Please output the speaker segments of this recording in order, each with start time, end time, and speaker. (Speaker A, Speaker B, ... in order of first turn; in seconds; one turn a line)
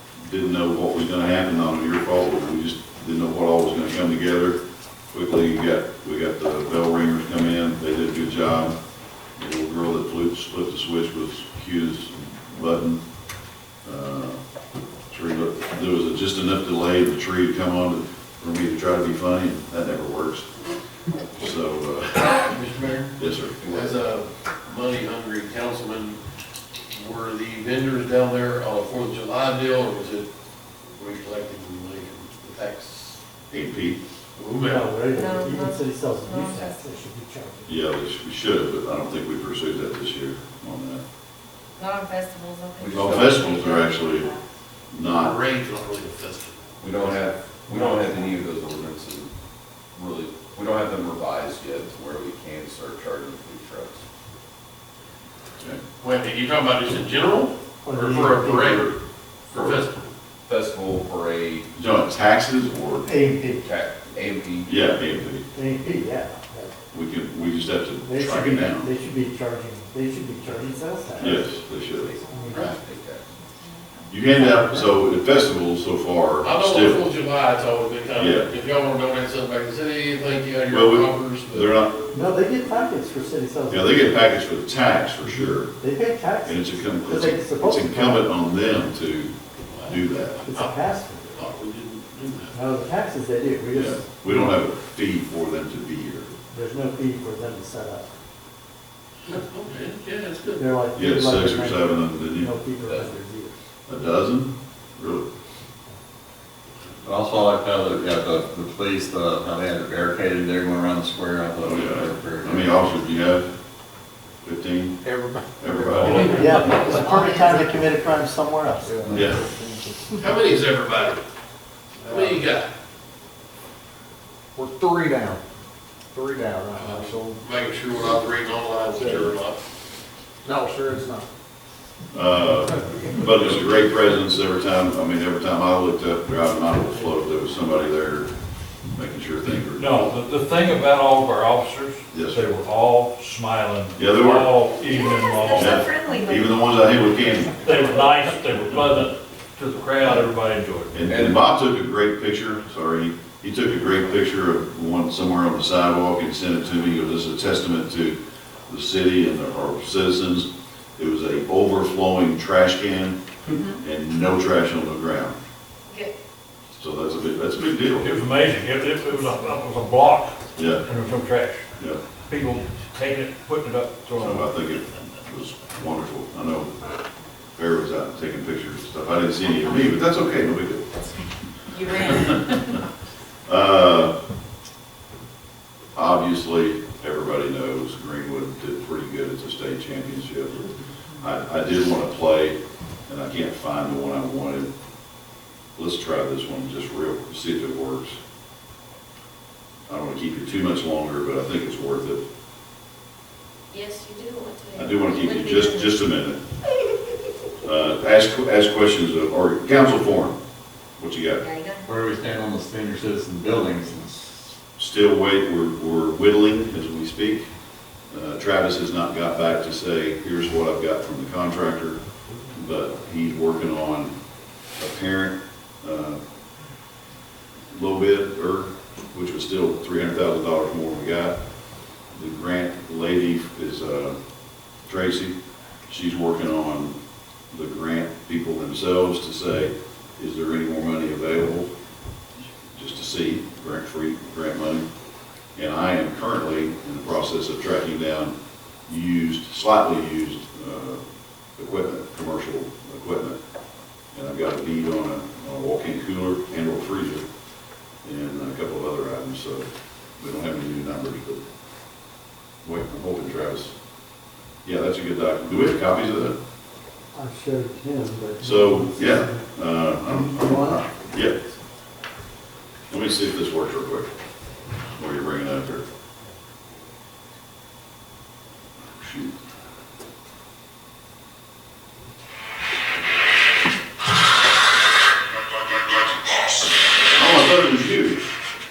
Speaker A: 0.2-4.6
Speaker A: 5.1-8.7
Speaker A: 9.3-13.0
Speaker A: 13.8-14.4
Speaker A: 15.1-20.5
Speaker A: 21.3-22.5
Speaker B: 22.2-26.2
Speaker A: 23.2-23.5
Speaker C: 23.6-24.0
Speaker B: 26.9-30.3
Speaker B: 30.9-33.2
Speaker A: 33.5-34.0
Speaker B: 34.4-35.1
Speaker D: 34.6-37.7
Speaker E: 35.1-37.0
Speaker A: 37.6-41.0
Speaker E: 41.8-44.5
Speaker C: 42.8-43.6
Speaker A: 42.9-44.3
Speaker A: 44.9-45.4
Speaker B: 45.0-48.1
Speaker C: 46.8-49.3
Speaker C: 49.9-54.0
Speaker B: 56.0-60.1
Speaker D: 57.8-58.9
Speaker C: 59.5-59.8
Speaker C: 60.5-61.7
Speaker A: 61.7-63.1
Speaker D: 63.0-63.6
Speaker C: 63.6-64.7
Speaker A: 64.7-65.4
Speaker D: 65.5-66.8
Speaker A: 66.9-68.9
Speaker D: 68.0-71.4
Speaker A: 71.2-72.1
Speaker C: 71.3-73.3
Speaker E: 72.2-74.2
Speaker D: 72.3-72.8
Speaker B: 72.5-72.8
Speaker A: 74.1-77.0
Speaker D: 74.4-74.7
Speaker B: 76.4-81.7
Speaker A: 78.2-78.5
Speaker A: 80.7-82.0
Speaker D: 82.1-84.2
Speaker A: 83.7-85.7
Speaker D: 85.7-88.2
Speaker A: 86.4-89.3
Speaker B: 89.7-92.6
Speaker A: 89.9-90.4
Speaker D: 90.5-91.5
Speaker D: 92.5-94.5
Speaker A: 93.7-96.3
Speaker D: 96.5-98.1
Speaker B: 99.2-100.7
Speaker D: 100.5-103.5
Speaker A: 100.9-102.5
Speaker C: 102.8-103.1
Speaker A: 103.9-105.2
Speaker F: 107.0-112.8
Speaker A: 111.6-113.5
Speaker A: 114.4-114.9
Speaker G: 115.0-116.1
Speaker A: 115.6-116.5
Speaker H: 115.9-117.0
Speaker D: 116.2-119.2
Speaker E: 117.1-117.6
Speaker G: 118.8-119.9
Speaker A: 119.1-119.4
Speaker B: 120.2-121.2
Speaker B: 122.0-122.7
Speaker G: 124.5-125.4
Speaker G: 126.1-127.4
Speaker B: 126.7-129.6
Speaker A: 132.1-138.3
Speaker A: 138.9-140.1
Speaker H: 139.7-145.9
Speaker A: 142.1-142.4
Speaker A: 143.9-144.5
Speaker E: 144.9-146.6
Speaker A: 145.5-148.1
Speaker H: 147.6-151.0
Speaker A: 150.0-150.3
Speaker A: 150.9-163.2
Speaker C: 151.1-151.4
Speaker A: 163.8-165.3
Speaker E: 165.9-166.1
Speaker A: 166.8-168.1
Speaker H: 168.0-171.7
Speaker A: 170.6-170.8
Speaker H: 172.2-174.5
Speaker A: 174.2-176.7
Speaker A: 177.5-180.9
Speaker E: 180.9-182.5
Speaker A: 181.8-182.6
Speaker A: 183.4-184.1
Speaker A: 185.9-190.6
Speaker A: 191.2-194.7
Speaker A: 195.8-198.2
Speaker A: 199.9-202.2
Speaker E: 203.7-206.0
Speaker A: 204.7-206.4
Speaker A: 207.6-210.4
Speaker A: 211.0-211.4
Speaker E: 211.4-211.8
Speaker F: 211.8-214.4
Speaker A: 214.8-217.5
Speaker A: 218.1-222.0
Speaker A: 222.5-224.1
Speaker A: 224.8-226.2
Speaker A: 227.7-231.4
Speaker A: 232.1-234.2
Speaker A: 234.8-235.3
Speaker A: 235.9-236.9
Speaker A: 237.5-241.7
Speaker A: 242.7-244.8
Speaker A: 245.5-248.3
Speaker A: 248.8-251.0
Speaker A: 251.6-253.4
Speaker A: 254.1-257.2
Speaker A: 258.0-259.6
Speaker A: 260.2-261.4
Speaker A: 262.6-263.7
Speaker A: 264.6-266.4
Speaker D: 267.1-269.4
Speaker A: 268.4-271.4
Speaker D: 270.0-270.8
Speaker A: 272.9-274.1
Speaker A: 274.9-275.8
Speaker A: 279.0-279.3
Speaker A: 287.1-288.3